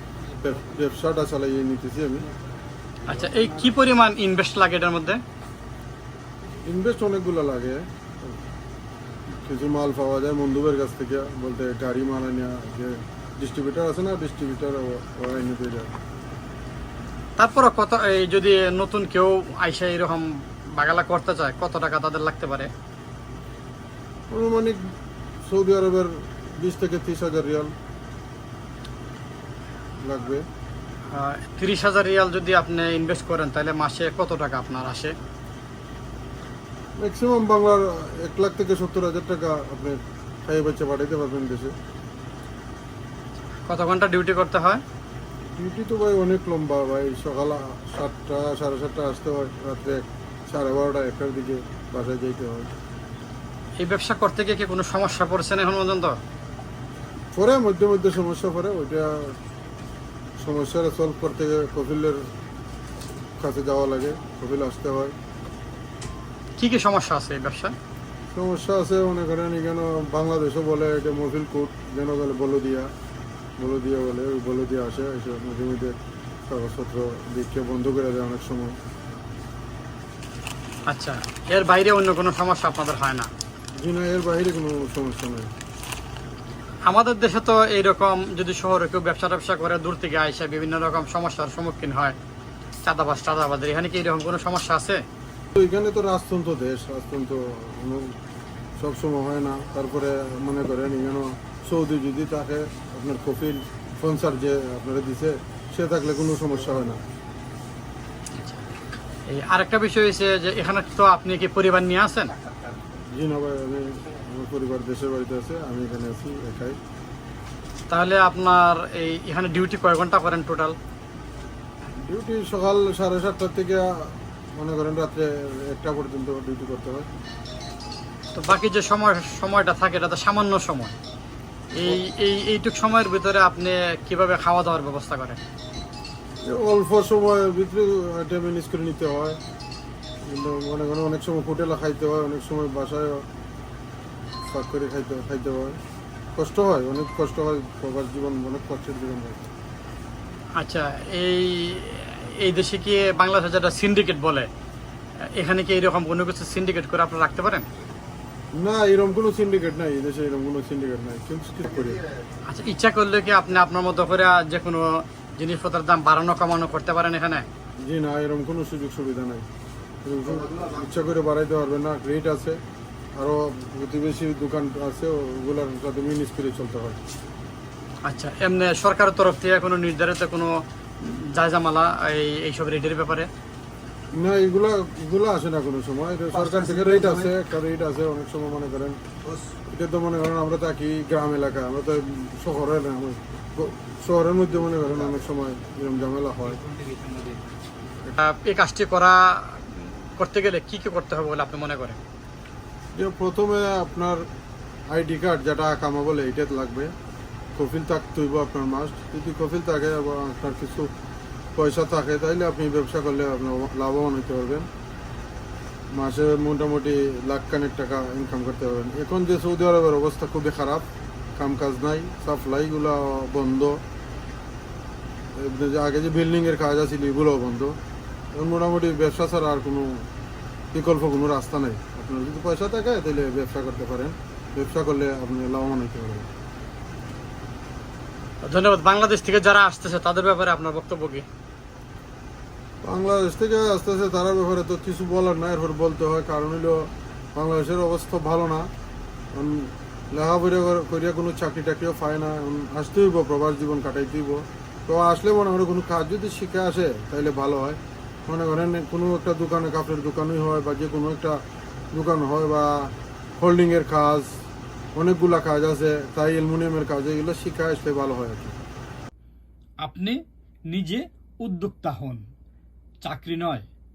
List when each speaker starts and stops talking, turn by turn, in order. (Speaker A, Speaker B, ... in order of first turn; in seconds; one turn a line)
Speaker A: 0.4-2.3
Speaker B: 3.1-5.2
Speaker A: 6.7-8.3
Speaker A: 9.4-15.9
Speaker B: 17.4-22.7
Speaker A: 24.3-24.8
Speaker A: 25.4-27.7
Speaker A: 30.0-30.4
Speaker B: 31.1-35.1
Speaker A: 37.0-41.7
Speaker B: 43.7-44.8
Speaker A: 45.5-52.7
Speaker B: 53.8-56.2
Speaker A: 57.3-59.4
Speaker A: 60.4-62.2
Speaker A: 63.4-65.2
Speaker B: 66.6-67.7
Speaker A: 68.3-72.9
Speaker A: 73.6-75.9
Speaker A: 76.5-78.8
Speaker B: 80.9-83.3
Speaker A: 83.8-85.5
Speaker B: 86.9-92.2
Speaker B: 92.8-95.0
Speaker A: 95.5-98.2
Speaker A: 98.8-107.0
Speaker B: 109.3-112.3
Speaker A: 113.0-116.8
Speaker B: 117.9-120.8
Speaker A: 122.0-127.1
Speaker B: 128.3-131.0
Speaker B: 131.8-135.4
Speaker A: 136.4-139.4
Speaker A: 140.2-143.2
Speaker A: 144.5-145.8
Speaker A: 146.4-149.5
Speaker B: 150.6-154.5
Speaker B: 155.3-157.7
Speaker A: 158.6-162.1
Speaker B: 162.5-167.4
Speaker A: 167.8-169.4
Speaker A: 170.0-172.6
Speaker A: 173.2-177.0
Speaker B: 178.1-183.3
Speaker A: 184.1-189.0
Speaker A: 189.7-196.6
Speaker B: 198.2-202.0
Speaker A: 202.9-204.2
Speaker A: 204.9-206.9
Speaker A: 207.6-210.9
Speaker A: 211.6-214.7
Speaker A: 215.9-223.8
Speaker A: 225.3-227.8
Speaker A: 228.3-230.1
Speaker A: 230.7-236.3
Speaker B: 238.4-241.2
Speaker A: 242.8-248.7
Speaker A: 249.3-261.4
Speaker A: 261.9-264.3
Speaker A: 264.9-268.6
Speaker B: 269.8-270.2
Speaker B: 270.7-272.2
Speaker B: 273.0-273.7